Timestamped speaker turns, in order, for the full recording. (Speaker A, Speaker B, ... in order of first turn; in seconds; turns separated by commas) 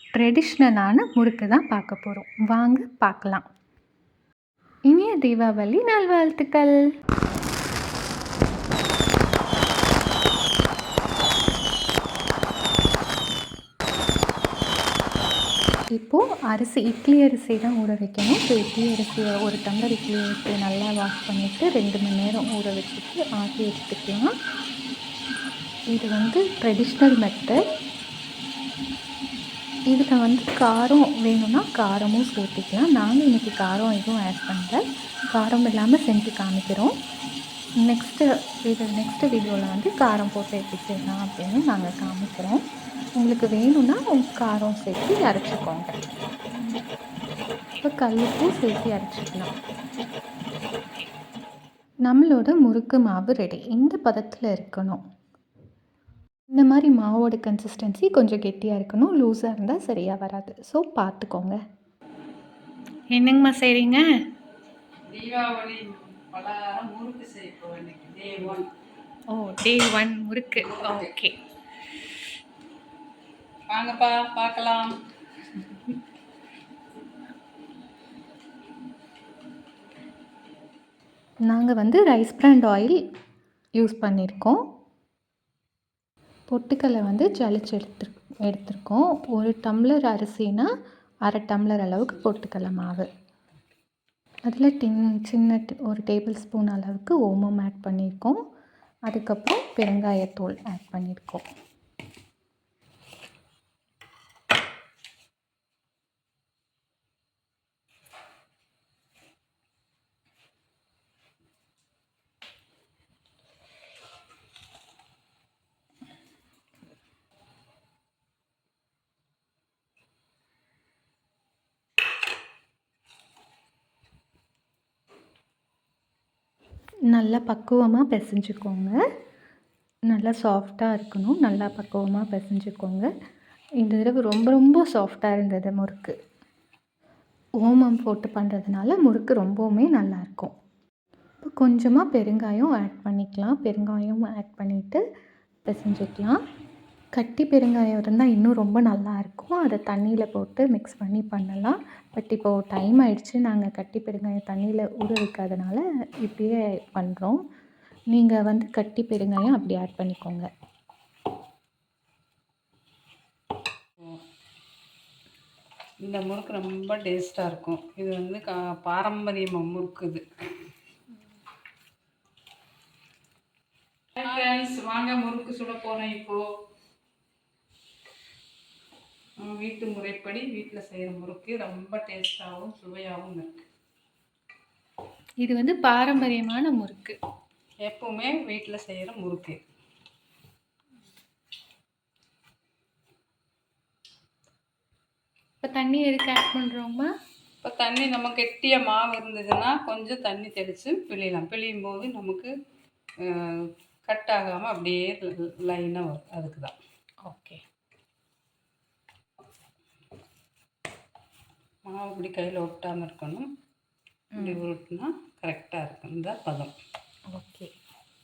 Speaker A: 0.2-3.4, Speaker A: 4.9-6.8, Speaker A: 15.9-24.3, Speaker A: 25.9-27.6, Speaker A: 29.9-34.8, Speaker A: 35.3-36.9, Speaker A: 37.8-42.6, Speaker A: 43.1-46.0, Speaker A: 47.8-49.5, Speaker A: 52.0-55.0, Speaker A: 56.5-61.6, Speaker A: 63.1-64.0, Speaker B: 65.1-68.7, Speaker A: 69.3-71.3, Speaker B: 70.5-71.1, Speaker B: 73.7-74.9, Speaker A: 81.5-83.0, Speaker A: 83.8-84.6, Speaker A: 86.5-90.7, Speaker A: 91.2-93.0, Speaker A: 94.5-98.4, Speaker A: 99.1-101.4, Speaker A: 127.1-129.0, Speaker A: 130.1-133.1, Speaker A: 133.8-136.1, Speaker A: 137.6-140.5, Speaker A: 141.4-145.0, Speaker A: 145.6-146.4, Speaker A: 147.1-157.4, Speaker A: 158.1-160.5, Speaker B: 166.0-170.2, Speaker B: 174.2-176.4, Speaker B: 179.4-183.6, Speaker A: 185.4-187.2, Speaker B: 187.8-189.6, Speaker A: 195.6-197.1, Speaker B: 197.6-202.5, Speaker B: 203.2-206.7, Speaker A: 207.2-207.6, Speaker B: 211.8-213.5, Speaker A: 214.3-214.6, Speaker B: 214.4-216.7, Speaker A: 217.3-217.7